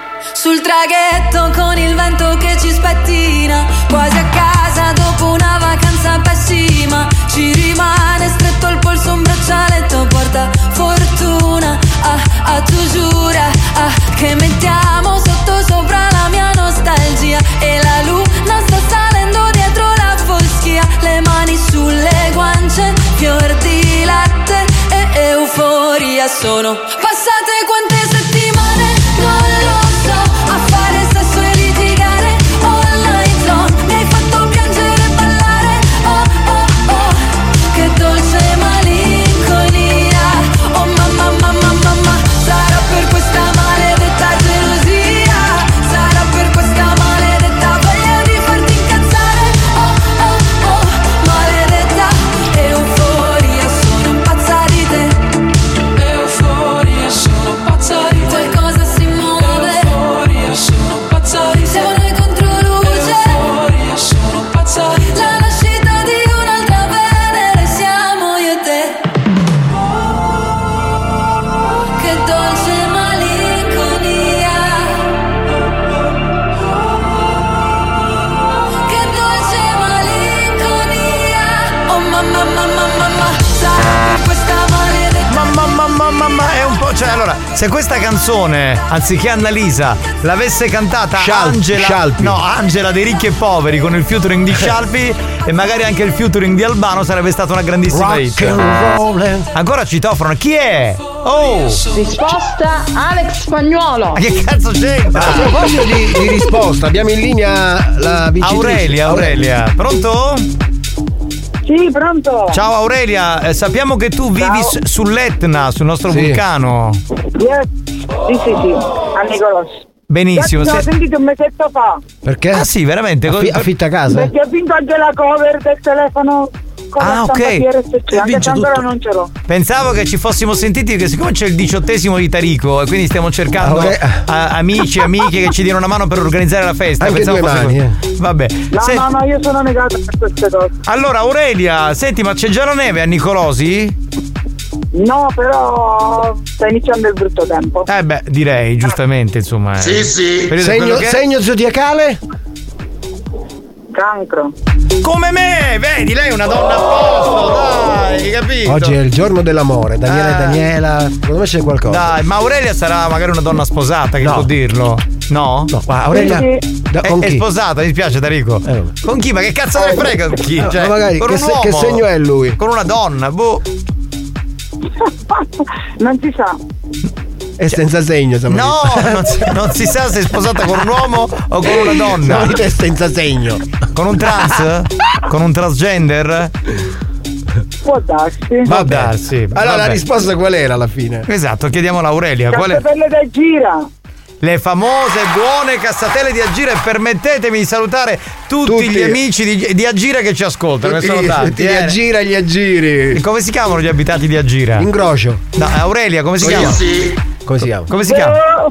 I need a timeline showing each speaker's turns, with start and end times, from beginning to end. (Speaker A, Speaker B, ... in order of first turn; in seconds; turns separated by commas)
Speaker A: 0.3-55.2, Speaker A: 56.0-69.0, Speaker A: 71.9-75.1, Speaker A: 78.8-85.5, Speaker B: 85.3-98.6, Speaker C: 91.2-92.4, Speaker C: 97.9-99.5, Speaker B: 99.5-101.8, Speaker D: 101.9-104.2, Speaker B: 104.2-105.6, Speaker C: 105.1-109.4, Speaker B: 108.4-110.5, Speaker E: 111.7-112.6, Speaker B: 112.5-117.0, Speaker E: 114.4-114.7, Speaker C: 116.1-116.4, Speaker E: 117.4-117.7, Speaker E: 118.3-119.7, Speaker B: 120.1-120.9, Speaker E: 120.3-122.0, Speaker C: 122.2-122.7, Speaker B: 122.5-123.7, Speaker C: 123.3-124.3, Speaker E: 124.1-129.3, Speaker B: 127.0-128.8, Speaker B: 129.5-139.1, Speaker C: 133.6-134.2, Speaker C: 137.0-138.0, Speaker E: 138.7-140.7, Speaker B: 140.9-143.9, Speaker E: 144.9-147.9, Speaker B: 147.9-151.2, Speaker C: 150.5-152.2, Speaker E: 153.9-154.5, Speaker B: 155.0-159.0, Speaker C: 158.7-162.2, Speaker B: 160.1-160.6, Speaker B: 161.9-165.7, Speaker C: 164.2-164.5, Speaker C: 165.7-167.4, Speaker E: 166.1-166.6, Speaker B: 167.0-173.6, Speaker C: 168.7-168.9, Speaker C: 170.6-172.6, Speaker E: 176.0-176.6, Speaker C: 177.6-179.5, Speaker B: 178.5-182.6, Speaker C: 181.6-183.6, Speaker B: 183.9-186.5, Speaker E: 187.8-188.7, Speaker B: 188.7-190.0, Speaker C: 188.7-191.3, Speaker B: 191.3-192.8, Speaker E: 192.5-193.9, Speaker B: 194.4-202.0, Speaker C: 198.6-199.2, Speaker C: 200.8-203.2, Speaker B: 203.1-204.9, Speaker C: 204.8-205.4, Speaker B: 205.6-206.9, Speaker C: 206.4-206.8, Speaker C: 207.5-207.9, Speaker B: 207.9-208.4